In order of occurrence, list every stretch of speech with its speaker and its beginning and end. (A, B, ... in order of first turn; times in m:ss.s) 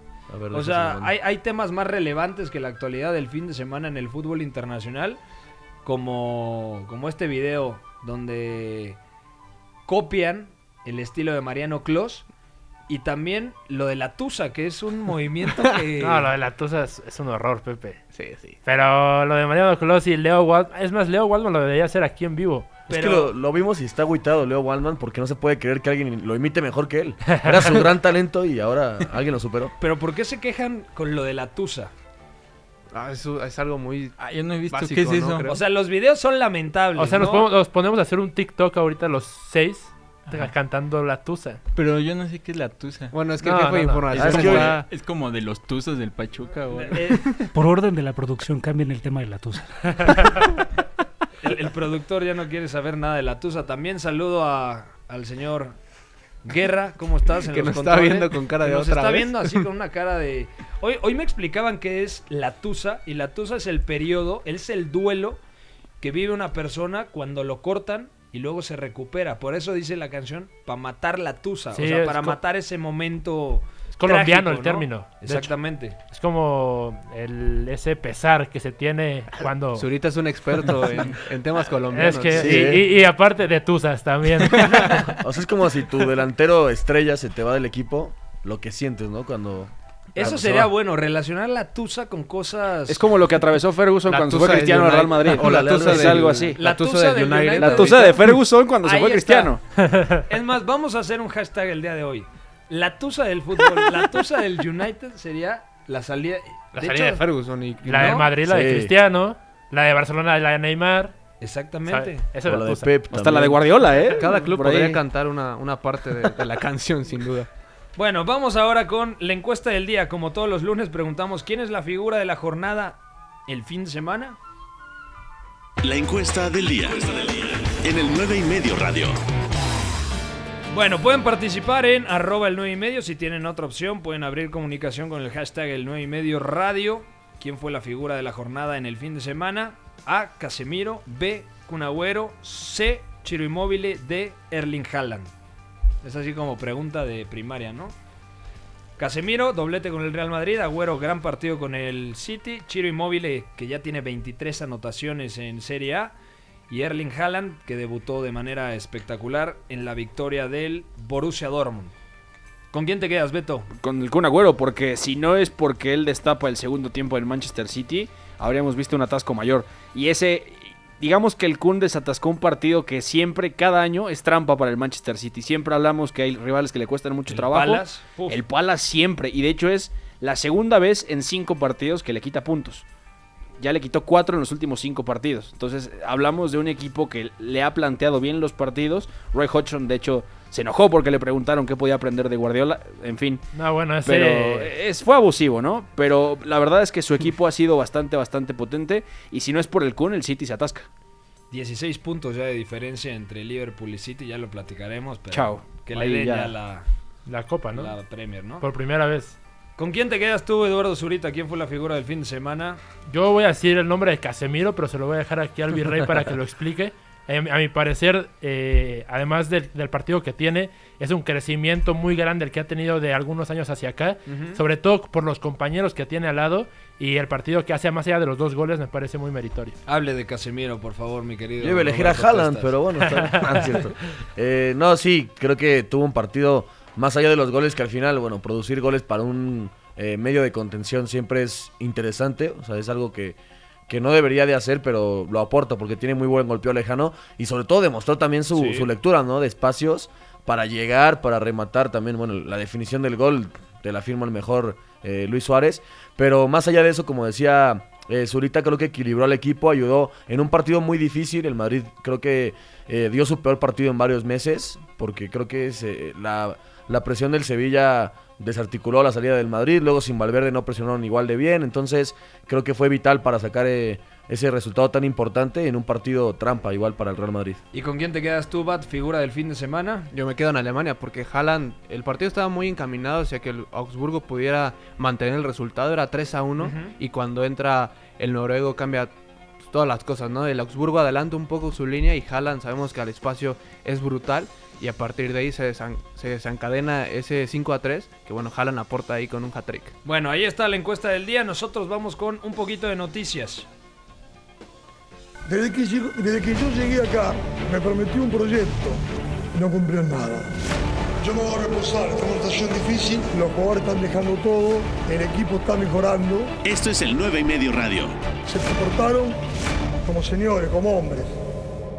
0:00.3-0:01.1 A
0:00.5-0:05.2 B
0:05.8-0:09.0 B
0:09.8-0:12.3 B
0:12.9-0:16.3 B
0:16.0-0:18.0 C
0:18.1-0:18.6 D
0:18.6-0:22.8 C
0:22.9-0:23.3 B
0:22.9-0:29.7 A
0:27.3-0:27.7 C
0:29.8-0:31.9 B
0:32.9-0:35.6 D
0:34.2-0:35.5 E
0:35.5-0:37.5 B
0:37.0-0:41.6 C
0:41.7-0:43.2 E
0:43.1-0:44.9 D
0:43.4-0:44.1 C
0:44.1-0:47.3 E
0:44.1-0:44.8 A
0:46.8-0:47.4 B
0:47.5-0:50.4 F
0:51.4-0:55.8 B
0:56.4-1:05.4 B
0:57.5-0:59.6 D
1:06.0-1:16.0 B
1:11.7-1:12.4 C
1:14.0-1:15.5 C
1:16.1-1:19.8 C
1:19.8-1:22.7 D
1:21.9-1:25.0 C
1:22.3-1:22.8 A
1:24.9-1:30.7 A
1:30.1-1:33.0 B
1:32.9-1:36.6 G
1:34.1-1:38.0 D
1:35.3-1:36.5 A
1:36.6-1:38.2 B
1:37.5-1:39.6 G
1:38.8-1:39.6 B
1:39.8-1:40.2 C
1:40.3-1:47.3 B
1:46.8-1:48.2 D
1:47.8-1:51.1 C
1:47.9-1:48.3 B
1:48.5-1:48.9 A
1:51.4-1:52.3 B
1:51.9-1:52.9 C
1:52.4-1:53.7 A
1:53.1-1:55.0 G
1:54.1-1:57.5 D
1:58.0-2:04.4 B
2:05.8-2:09.2 H
2:10.7-2:25.3 B
2:26.0-2:27.9 B
2:29.0-2:36.2 B
2:36.7-2:41.9 B
2:42.7-2:43.7 B
2:43.7-3:02.8 G
2:57.3-2:58.4 B
3:03.6-3:13.4 G
3:13.5-3:14.7 C
3:14.0-3:20.9 G
3:21.5-3:26.9 B
3:25.3-3:26.5 G
3:27.3-3:27.9 C
3:27.7-3:28.6 B
3:28.6-3:29.4 C
3:29.8-3:32.8 B
3:33.1-3:49.8 C
3:44.3-3:44.6 B
3:49.9-3:52.8 B
3:51.6-4:37.6 A
3:53.2-3:53.6 C
4:08.5-4:08.9 B
4:37.7-4:40.1 B
4:40.1-4:59.9 D
4:46.6-4:47.0 B
5:00.0-5:03.6 B
5:05.5-5:09.0 I
5:09.5-5:10.5 I
5:11.2-5:16.5 I
5:16.6-5:18.1 H
5:18.5-5:19.4 I
5:20.0-5:21.4 I